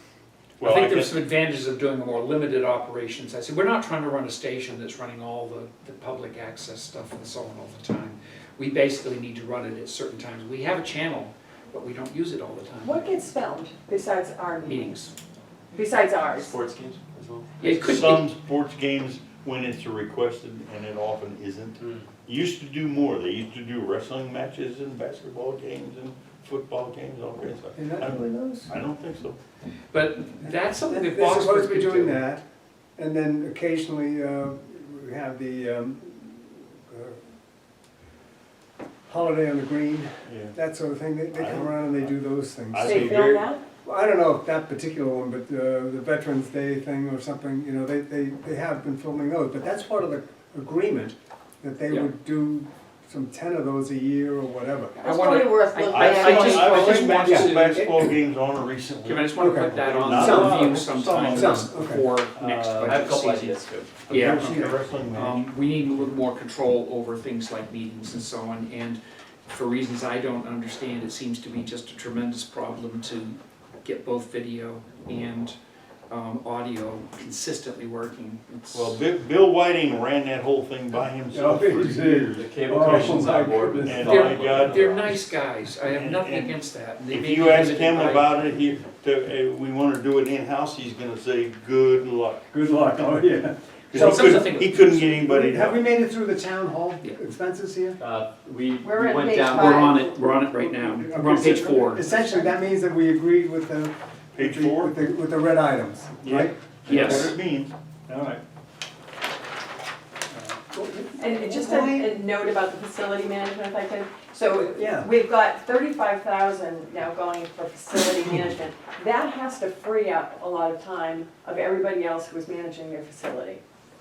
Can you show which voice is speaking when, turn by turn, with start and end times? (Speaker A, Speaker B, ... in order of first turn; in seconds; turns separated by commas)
Speaker A: 0.6-1.2, Speaker B: 0.6-13.0, Speaker C: 12.8-15.0, Speaker B: 14.7-15.1, Speaker C: 15.7-16.5, Speaker D: 16.3-17.5, Speaker B: 17.6-18.3, Speaker A: 17.6-29.4, Speaker D: 21.8-22.1, Speaker E: 27.8-28.7, Speaker B: 29.9-32.2, Speaker E: 30.4-32.4, Speaker E: 33.0-37.2, Speaker E: 39.1-55.0, Speaker A: 40.2-40.5, Speaker A: 41.3-42.1, Speaker A: 42.7-43.5, Speaker C: 42.8-43.6, Speaker C: 55.0-57.1, Speaker B: 55.0-57.9, Speaker A: 55.9-61.6, Speaker E: 56.8-58.1, Speaker B: 59.0-63.5, Speaker E: 59.4-62.0, Speaker A: 62.3-63.2, Speaker D: 62.8-64.0, Speaker B: 64.1-75.5, Speaker A: 64.1-65.5, Speaker E: 64.1-64.8, Speaker B: 76.1-79.0, Speaker A: 78.7-83.1, Speaker E: 81.3-84.3, Speaker D: 82.1-85.1, Speaker A: 83.8-85.3, Speaker B: 84.0-88.3, Speaker A: 85.9-86.5, Speaker A: 87.1-92.5, Speaker E: 92.5-98.0, Speaker A: 93.9-95.8, Speaker B: 93.9-94.8, Speaker D: 98.0-100.0, Speaker C: 98.8-100.1, Speaker B: 99.4-102.4, Speaker E: 100.4-107.3, Speaker A: 104.3-104.9, Speaker A: 106.2-107.7, Speaker B: 106.8-107.3, Speaker E: 108.1-108.4, Speaker E: 110.3-112.1, Speaker C: 111.2-123.6, Speaker E: 114.7-115.1